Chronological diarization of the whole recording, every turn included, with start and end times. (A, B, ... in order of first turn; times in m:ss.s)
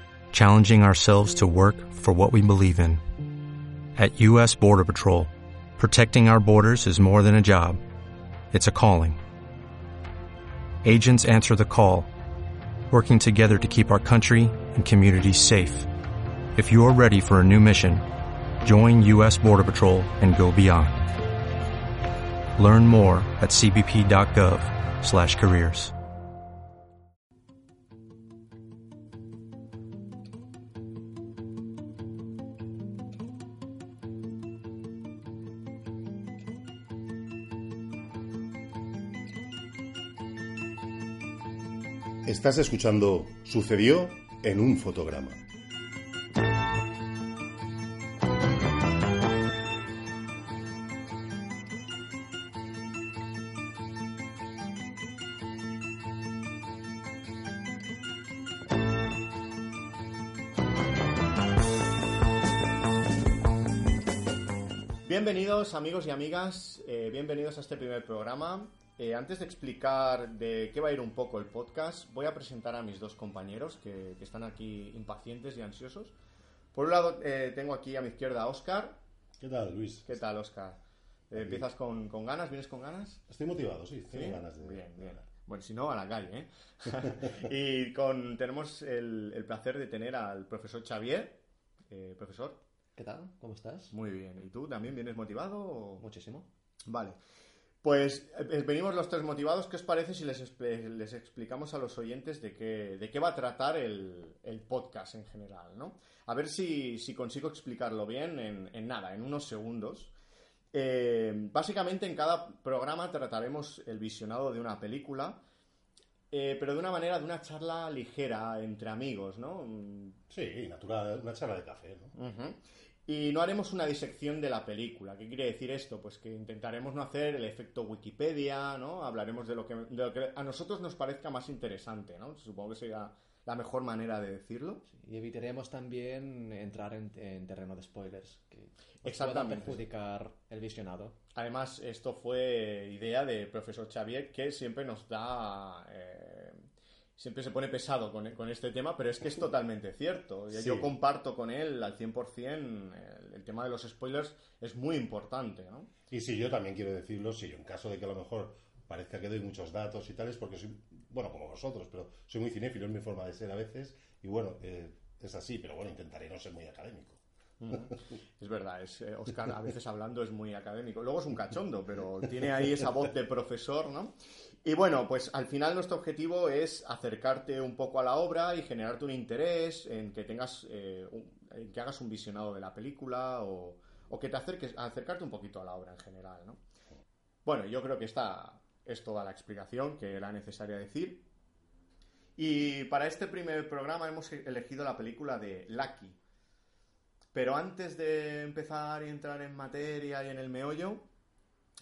0:00.3-0:03.0 A
0:04.0-0:07.8 A
0:08.5-0:09.2 A
0:10.8-0:12.1 A
0:12.9-0:15.9 A
0:16.6-0:18.1 A
0:18.6-0:21.1 A
0:22.6-0:25.9 A
0:42.2-0:45.4 B
1:05.0-1:16.1 C
1:16.7-1:19.0 C
1:19.4-1:20.1 B
1:20.1-1:20.8 C
1:21.3-1:23.2 C
1:21.3-1:21.7 B
1:23.3-1:25.2 B
1:24.1-1:31.4 C
1:31.9-1:32.6 C
1:33.0-1:33.9 D
1:33.9-1:36.0 C
1:36.0-1:36.5 D
1:36.9-1:37.2 C
1:37.8-1:50.1 C
1:50.7-1:55.4 C
1:56.3-2:00.2 C
2:00.3-2:02.2 B
2:02.2-2:14.8 C
2:14.9-2:21.2 D
2:19.0-2:19.8 C
2:21.4-2:26.6 C
2:27.2-2:35.9 C
2:30.5-2:30.9 B
2:36.1-2:47.2 B
2:47.6-3:06.6 C
3:07.4-3:11.2 C
3:12.4-3:16.2 C
3:17.3-3:21.0 C